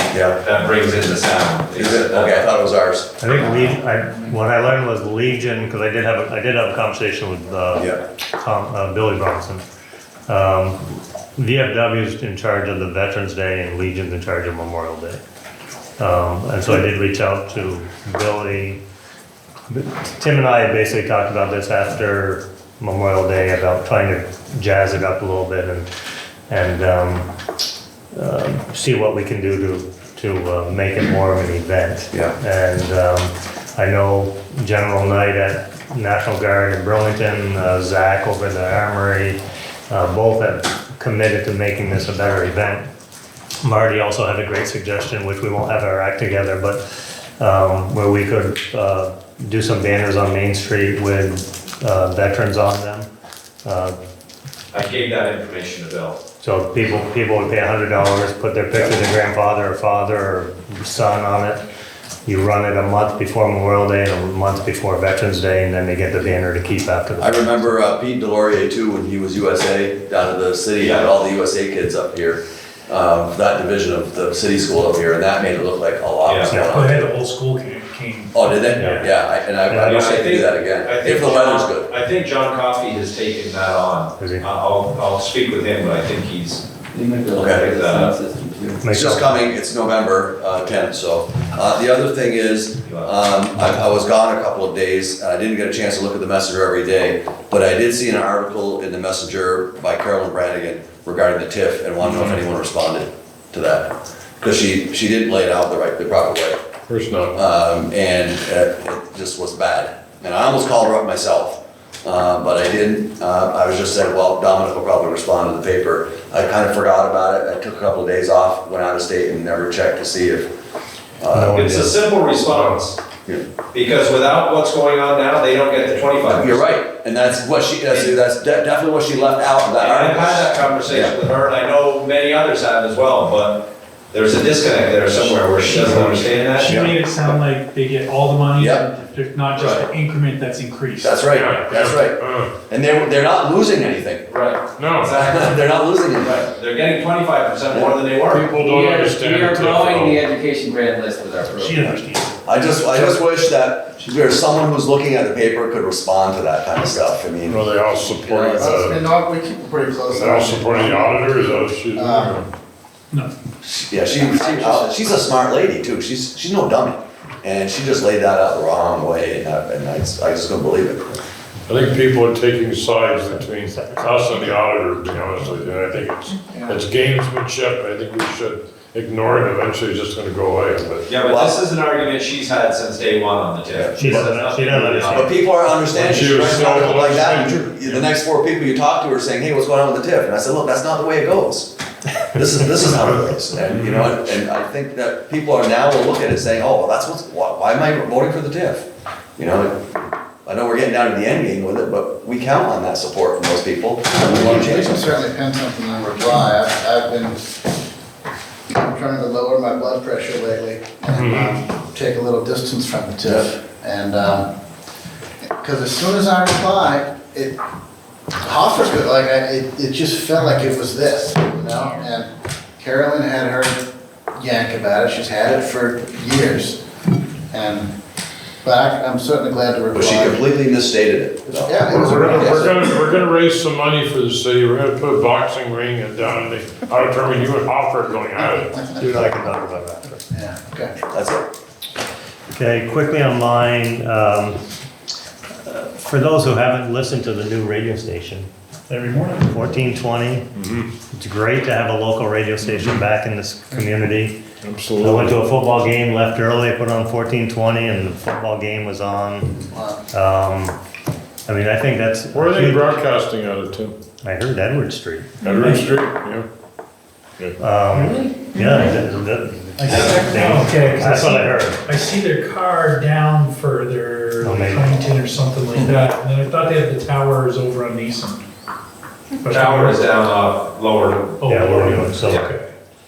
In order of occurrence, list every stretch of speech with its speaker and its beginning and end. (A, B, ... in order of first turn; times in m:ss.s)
0:00.1-0:00.4 A
0:00.4-0:02.4 B
0:01.8-0:03.1 A
0:03.2-0:09.6 C
0:07.8-0:08.0 A
0:10.3-0:10.8 C
0:11.4-0:15.2 C
0:16.0-0:18.8 C
0:19.7-0:25.9 C
0:26.5-0:27.3 C
0:28.1-0:42.9 C
0:43.6-0:46.8 C
0:47.4-0:53.1 C
0:53.6-0:54.0 C
0:54.7-0:56.2 B
0:56.4-1:01.6 C
1:02.3-1:07.8 C
1:07.2-1:17.0 A
1:16.2-1:16.6 B
1:16.5-1:16.8 C
1:16.6-1:18.6 D
1:18.3-1:21.9 A
1:18.8-1:19.1 C
1:19.7-1:20.0 C
1:19.8-1:26.6 B
1:24.2-1:24.5 C
1:27.0-1:28.8 E
1:27.3-1:27.7 A
1:27.4-1:28.2 B
1:28.8-1:29.3 C
1:28.9-1:46.6 A
1:32.9-1:33.1 B
1:46.9-1:47.4 F
1:47.4-2:00.5 A
2:01.2-2:01.6 A
2:01.3-2:02.0 C
2:01.4-2:03.0 B
2:02.5-2:02.8 F
2:03.7-2:06.6 B
2:06.4-2:11.1 A
2:09.8-2:16.8 B
2:16.6-2:21.3 D
2:16.7-2:17.3 A
2:18.6-2:18.8 A
2:19.6-2:19.9 B
2:21.0-2:24.3 A
2:21.3-2:22.6 F
2:24.3-2:25.5 B
2:24.8-2:25.1 F
2:25.1-2:26.4 A
2:26.2-2:28.5 B
2:28.3-2:30.3 F
2:28.6-2:31.8 E
2:31.5-2:33.0 D
2:32.5-2:38.9 A
2:37.5-2:39.1 F
2:38.6-2:42.4 G
2:40.1-2:42.5 F
2:43.6-2:51.2 A
2:44.2-2:45.0 G
2:51.7-3:01.1 F
2:53.7-2:54.2 C
2:56.5-2:56.8 G
3:01.1-3:05.3 B
3:01.3-3:01.6 A
3:03.7-3:04.0 A
3:04.0-3:05.4 C
3:05.1-3:11.7 A
3:05.9-3:08.0 F
3:12.3-3:18.8 A
3:13.7-3:14.1 F
3:19.4-3:25.2 A
3:24.2-3:27.4 G
3:28.8-3:34.5 G
3:31.1-3:31.6 F
3:35.6-3:37.6 G
3:38.4-3:43.8 G
3:44.4-3:46.8 G
3:47.5-3:47.9 G
3:48.6-3:50.4 G
3:50.0-3:52.8 A
3:51.6-3:52.8 G
3:51.9-3:58.8 F
3:58.9-4:00.2 C
4:00.3-4:01.0 G
4:01.1-4:01.4 A
4:02.6-4:04.6 C
4:05.6-4:08.5 C
4:08.9-4:09.6 D
4:09.5-4:10.5 C
4:10.6-4:10.9 F
4:11.1-4:14.4 C
4:12.7-4:13.0 F
4:14.6-4:15.4 F
4:15.0-4:20.8 C
4:19.7-4:20.0 G
4:21.5-4:22.9 C
4:22.3-4:24.0 F
4:24.2-4:25.8 C
4:25.4-4:26.5 F
4:27.4-4:28.1 F
4:27.6-4:31.8 C
4:29.8-4:38.4 D
4:34.4-4:35.1 C
4:39.4-4:40.0 D
4:39.4-4:41.5 B
4:41.4-4:42.6 D
4:41.4-4:42.4 C
4:42.2-4:42.5 B